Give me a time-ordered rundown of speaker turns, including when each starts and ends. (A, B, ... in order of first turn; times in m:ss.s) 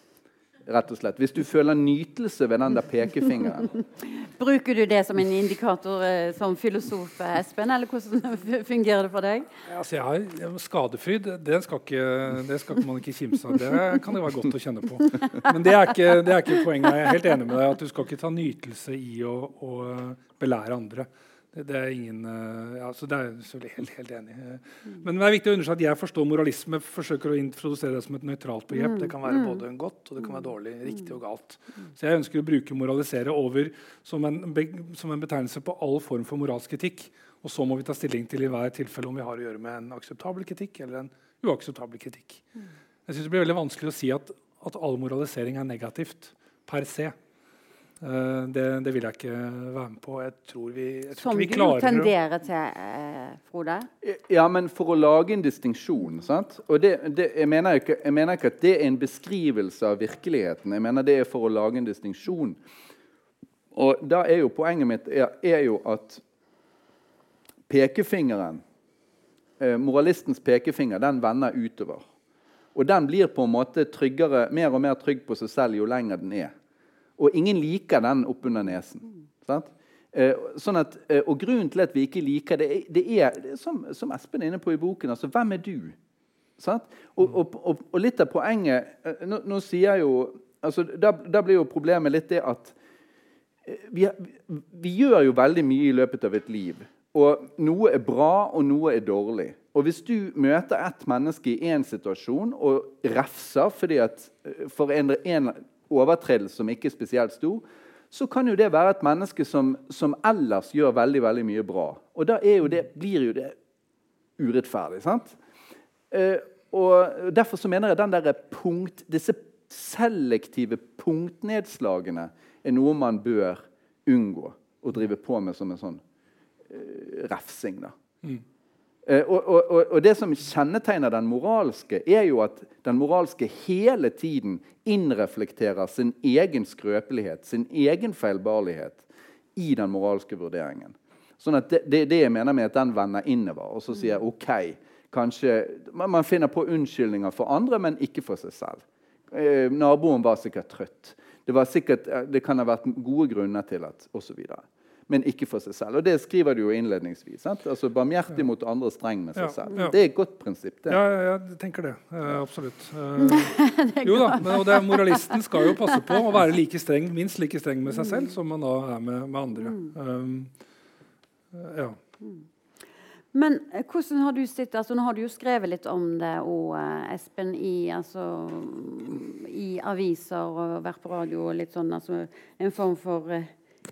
0:00.7-0:03.7 A
0:04.1-0:09.5 B
0:09.7-0:42.4 C
0:43.1-0:47.1 C
0:48.0-0:52.1 C
0:51.2-0:53.9 B
0:54.0-1:02.6 A
1:03.7-1:06.2 A
1:07.7-1:08.6 A
1:09.6-1:12.0 A
1:12.7-1:16.5 A
1:17.2-1:26.0 A
1:26.6-1:32.7 A
1:33.7-1:53.6 A
1:54.4-1:55.4 A
1:56.1-2:06.0 A
2:06.7-2:08.0 A
2:09.0-2:19.0 A
2:19.6-2:41.0 A
2:39.4-2:40.0 C
2:40.9-2:50.5 C
2:43.2-2:46.1 B
2:51.5-2:52.0 C
2:53.3-3:03.5 B